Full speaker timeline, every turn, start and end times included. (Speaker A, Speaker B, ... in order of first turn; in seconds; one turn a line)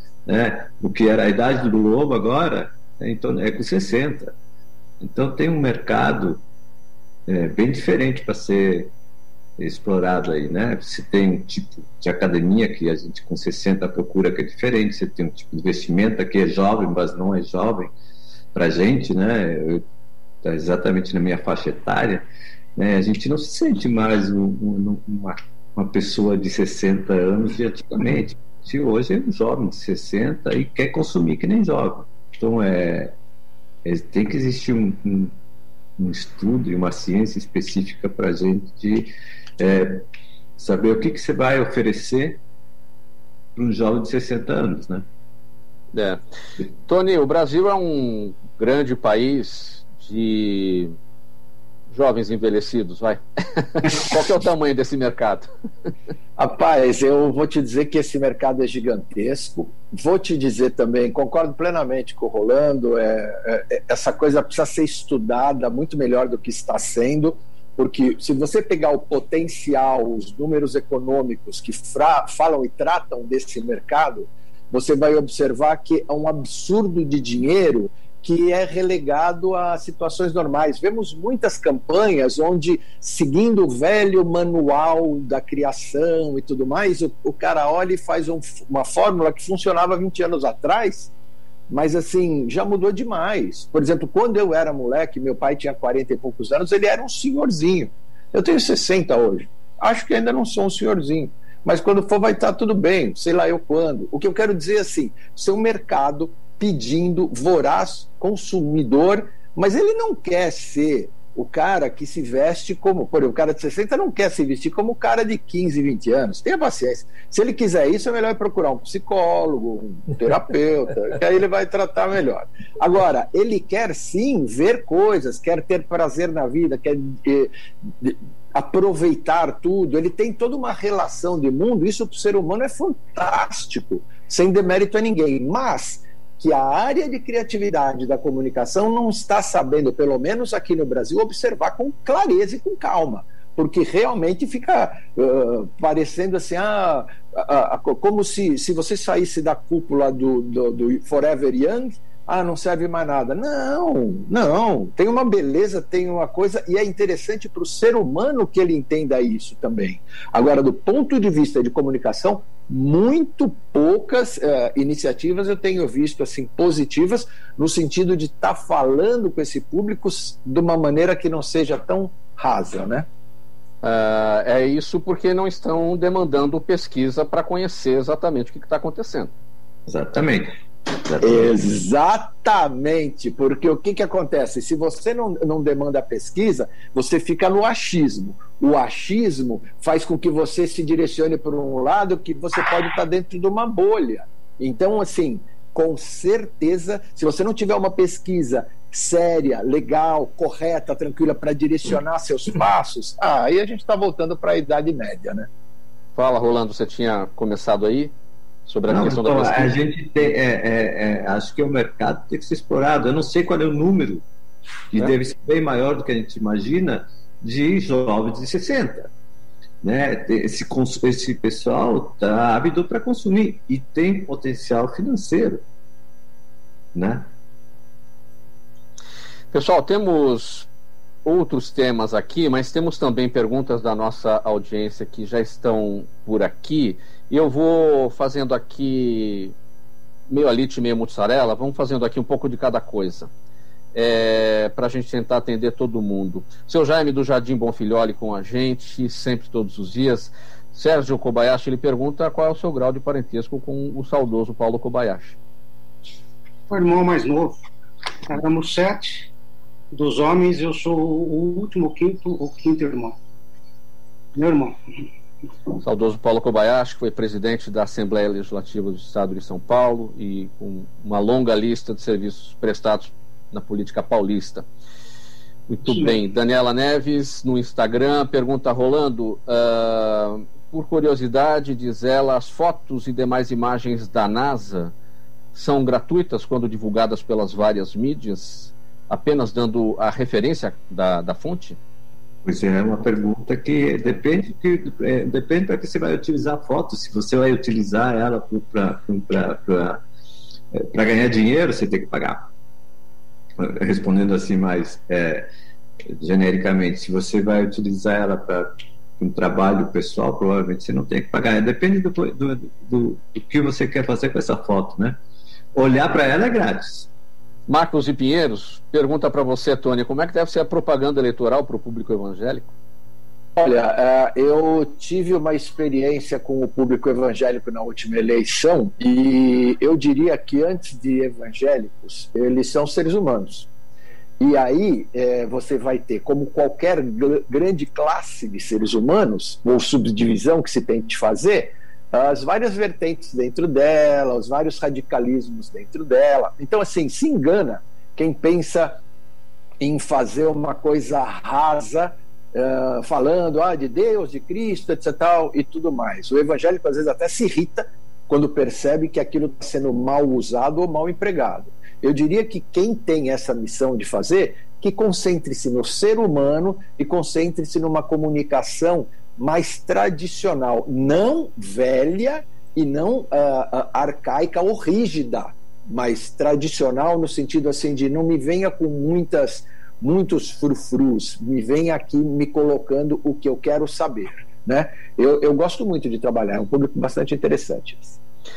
Speaker A: 0.3-4.3
Speaker A: 5.0-6.4
Speaker A: 7.3-8.9
Speaker A: 9.6-17.9
Speaker A: 18.5-19.8
Speaker A: 20.4-22.2
Speaker A: 22.8-33.1
Speaker A: 33.8-35.3
Speaker A: 36.0-40.0
Speaker A: 40.6-42.4
Speaker A: 43.5-45.0
Speaker B: 45.9-46.2
Speaker B: 46.8-50.9
Speaker B: 51.9-55.5
Speaker C: 56.4-91.1
Speaker C: 91.7-173.1
Speaker B: 173.8-179.3
Speaker A: 179.9-181.5
Speaker C: 181.2-205.5
Speaker B: 206.1-208.1
Speaker B: 208.7-209.8
Speaker A: 208.9-214.2
Speaker A: 214.9-219.1
Speaker A: 219.8-225.6
Speaker A: 226.9-227.3
Speaker B: 229.5-230.7
Speaker B: 231.2-239.5
Speaker B: 240.3-243.3
Speaker B: 243.9-255.4
Speaker D: 256.7-257.6
Speaker D: 258.2-259.3
Speaker D: 259.9-263.2
Speaker D: 264.3-264.8
Speaker B: 265.8-274.6
Speaker B: 275.7-284.9
Speaker D: 275.9-276.1
Speaker B: 285.5-291.8
Speaker A: 292.4-300.0
Speaker A: 300.7-302.4
Speaker A: 303.6-305.4
Speaker A: 306.2-308.7
Speaker A: 309.2-315.2
Speaker A: 315.7-317.1
Speaker B: 317.7-322.7
Speaker C: 323.6-333.7
Speaker C: 334.4-349.0
Speaker C: 349.8-388.2